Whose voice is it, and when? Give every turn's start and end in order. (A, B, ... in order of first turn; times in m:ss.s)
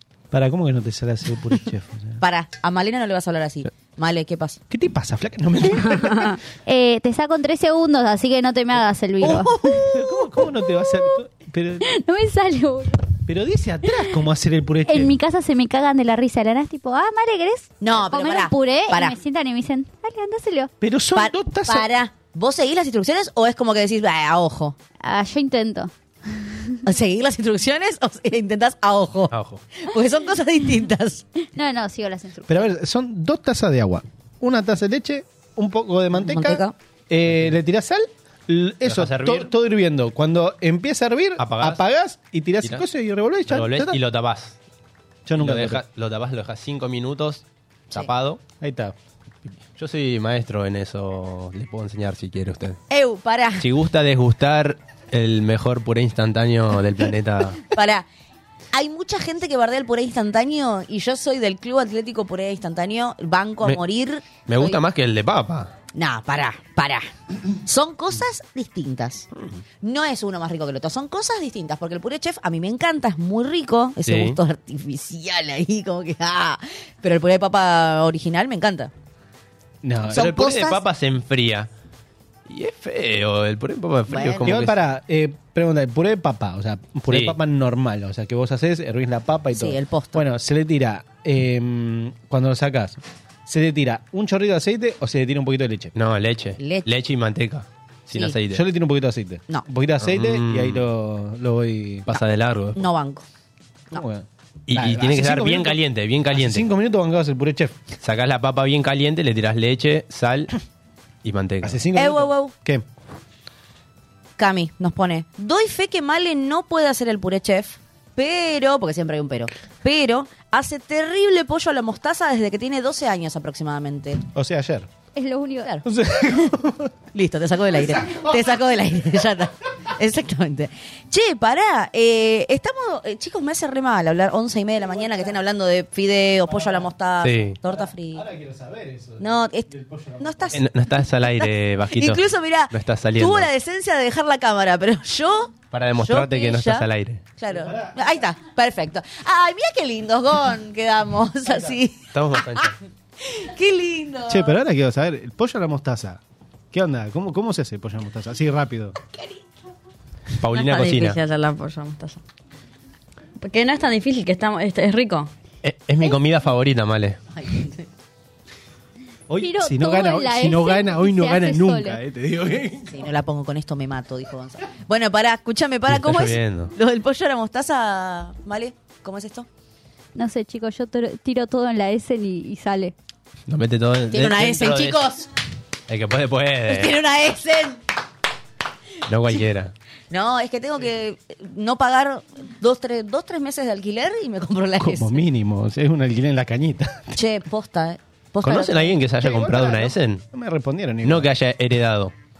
0:00.3-0:02.2 A
0:02.2-0:04.6 B
0:04.7-0:06.4 A
0:06.6-0:09.8 C
0:09.2-0:11.9 A
0:09.2-0:10.2 B
0:10.8-0:11.1 C
0:11.8-0:13.1 C
0:13.3-0:15.2 A
0:14.8-0:20.7 C
0:17.8-0:19.2 B
0:20.8-0:21.9 A
0:21.1-0:24.8 B
0:25.0-0:26.8 C
0:26.8-0:31.2 B
0:29.3-0:29.6 D
0:31.4-0:32.7 C
0:32.5-0:44.0 A
0:36.1-0:36.7 B
0:38.8-0:39.5 D
0:41.4-0:41.8 D
0:43.5-0:44.6 D
0:45.2-0:45.8 A
0:45.4-0:48.4 D
0:48.6-0:48.9 A
0:49.8-0:52.8 D
0:52.9-0:53.6 B
0:53.6-0:57.6 D
0:57.7-0:58.0 B
0:58.7-1:04.8 B
1:04.4-1:05.7 D
1:05.9-1:09.3 B
1:09.8-1:18.9 B
1:14.0-1:14.4 D
1:19.8-1:20.3 A
1:20.1-1:21.7 D
1:20.1-1:20.8 B
1:22.5-1:24.7 D
1:24.1-1:24.6 B
1:24.4-1:35.9 A
1:27.1-1:27.4 D
1:29.5-1:30.2 B
1:35.9-1:38.6 D
1:36.6-1:36.9 B
1:38.5-1:42.1 A
1:40.0-1:40.8 D
1:42.1-1:42.8 D
1:42.7-1:43.2 B
1:43.9-1:47.8 A
1:44.7-1:46.7 D
1:48.0-1:50.5 D
1:51.2-1:51.8 D
1:51.6-1:52.8 A
1:51.9-1:52.5 B
1:54.4-2:04.2 B
2:04.3-2:04.9 A
2:05.1-2:05.7 C
2:05.8-2:06.9 A
2:07.1-2:18.2 B
2:08.0-2:08.6 A
2:14.8-2:15.3 A
2:16.5-2:16.9 A
2:17.2-2:17.6 D
2:17.6-2:20.6 A
2:19.2-2:19.7 B
2:20.2-2:20.6 B
2:20.5-2:23.5 D
2:21.2-2:26.8 B
2:25.7-2:27.2 D
2:27.4-2:34.6 B
2:27.5-2:28.2 A
2:31.5-2:31.7 A
2:32.1-2:32.7 D
2:34.3-2:36.2 A
2:36.7-2:39.0 A
2:40.4-2:41.2 D
2:40.5-2:42.2 E
2:43.4-2:45.3 E
2:45.6-2:47.2 D
2:47.3-2:47.9 B
2:49.3-2:53.1 A
2:49.4-2:52.0 C
2:52.9-2:59.5 B
2:55.9-2:56.7 D
3:00.1-3:02.9 C
3:03.5-3:05.0 D
3:04.1-3:05.3 B
3:05.9-3:07.0 D
3:06.7-3:07.8 B
3:09.1-3:09.7 D
3:10.1-3:15.1 B
3:14.8-3:17.1 A
3:17.1-3:19.0 B
3:18.4-3:20.2 D
3:19.2-3:21.3 A
3:21.0-3:22.1 D